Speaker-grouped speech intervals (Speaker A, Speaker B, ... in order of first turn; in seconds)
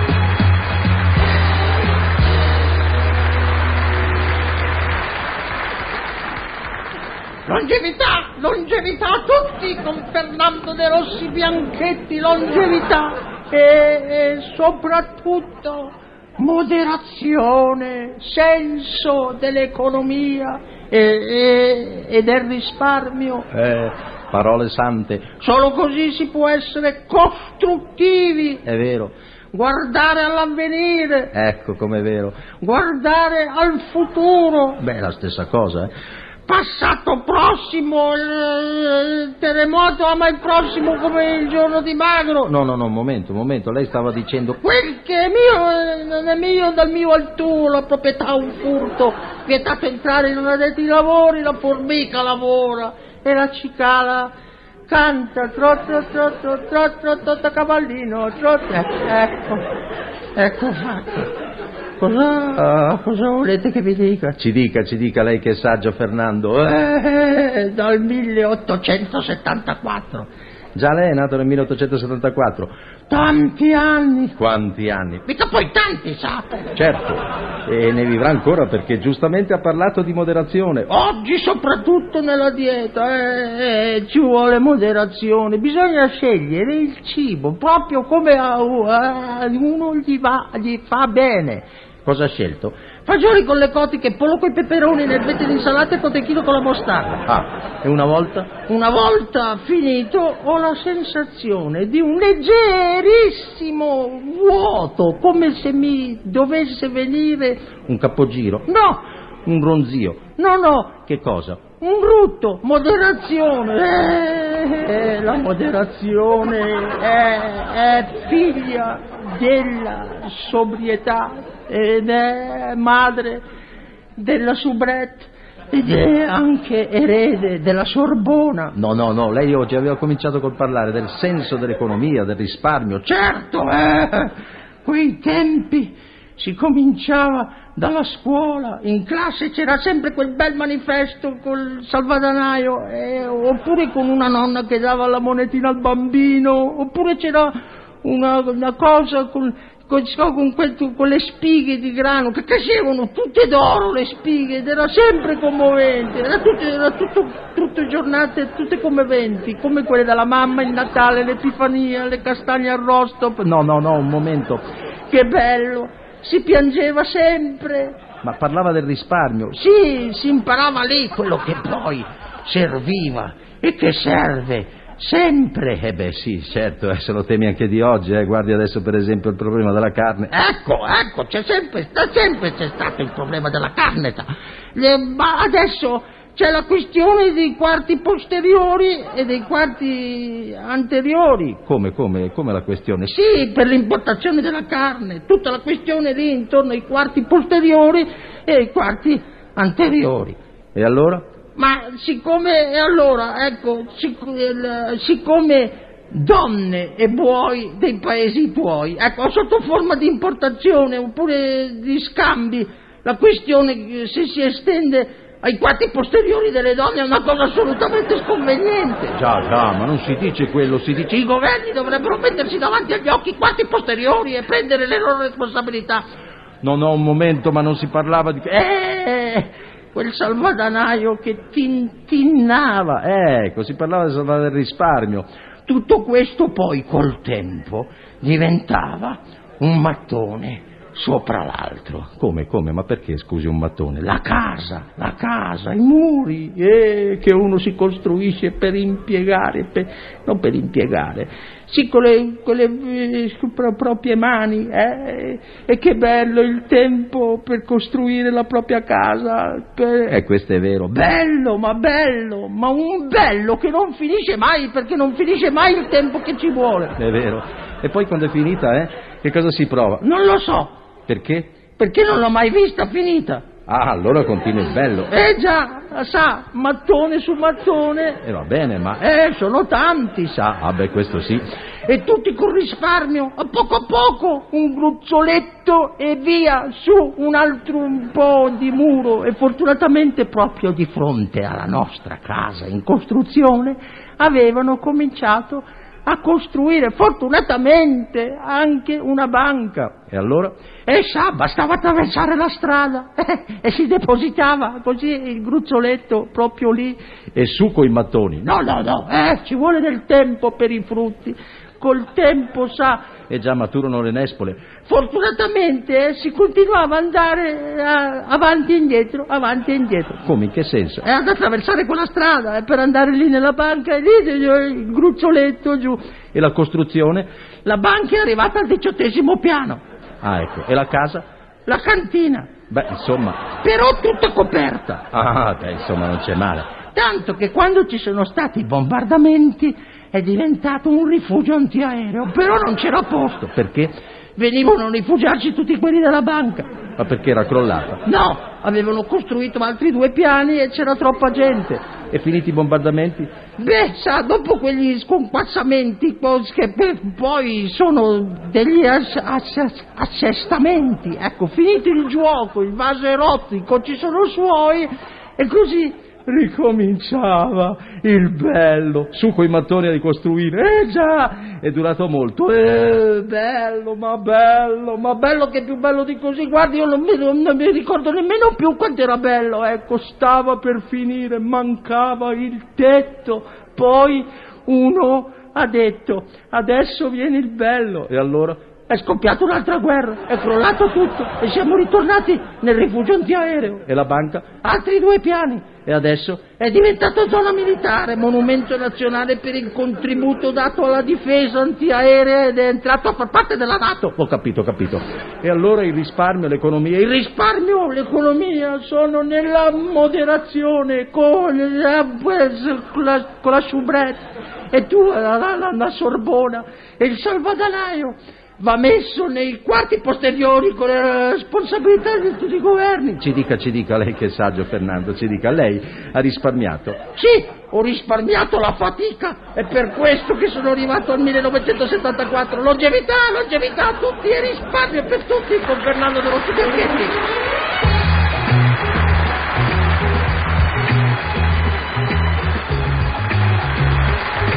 Speaker A: 7.5-23.5, 25.3-28.7, 29.5-31.3, 32.5-35.2, 36.5-42.7, 44.6-54.3, 54.9-59.7, 60.4-61.3, 62.0-64.4, 66.7-70.3, 73.1-74.4, 75.2-76.6, 80.9-97.2, 98.5-123.4, 124.2-128.8, 133.0-163.7, 165.1-168.1, 169.5-176.1, 180.3-191.7, 193.0-200.4, 201.6-219.3, 221.1-226.1, 228.5-233.2, 235.7-242.2, 244.0-267.0, 270.0-270.7, 271.8-273.5, 275.1-278.2, 278.9-280.6, 281.9-300.1, 300.9-307.0, 308.4-313.2, 314.8-320.2, 321.0-326.1, 327.6-329.8, 331.7-332.7, 333.5-335.1, 336.8-346.8, 348.0-351.9, 353.5-369.0, 371.0-371.5, 372.8-393.9, 394.5-395.9, 396.4-404.2, 407.1-423.2, 427.1-437.2
Speaker B: 23.6-25.3, 28.7-29.1, 31.3-32.4, 35.2-35.9, 42.6-44.6, 64.4-66.7, 70.8-72.7, 74.4-75.2, 76.8-80.9, 97.3-98.5, 109.9-110.2, 111.3-111.6, 128.8-133.0, 163.5-164.6, 168.2-169.5, 176.1-180.3, 191.7-193.0, 200.8-201.2, 219.2-221.1, 226.6-228.5, 233.2-235.3, 242.2-244.0, 260.2-260.9, 267.0-270.0, 271.1-271.5, 273.7-275.1, 278.2-279.0, 280.6-281.5, 300.1-300.5, 307.3-308.5, 313.3-314.7, 320.2-321.0, 326.4-327.3, 330.2-331.2, 332.7-333.5, 335.1-336.8, 347.0-348.0, 352.1-353.3, 368.9-372.8, 393.9-394.5, 395.9-396.4, 404.2-407.1, 423.2-427.0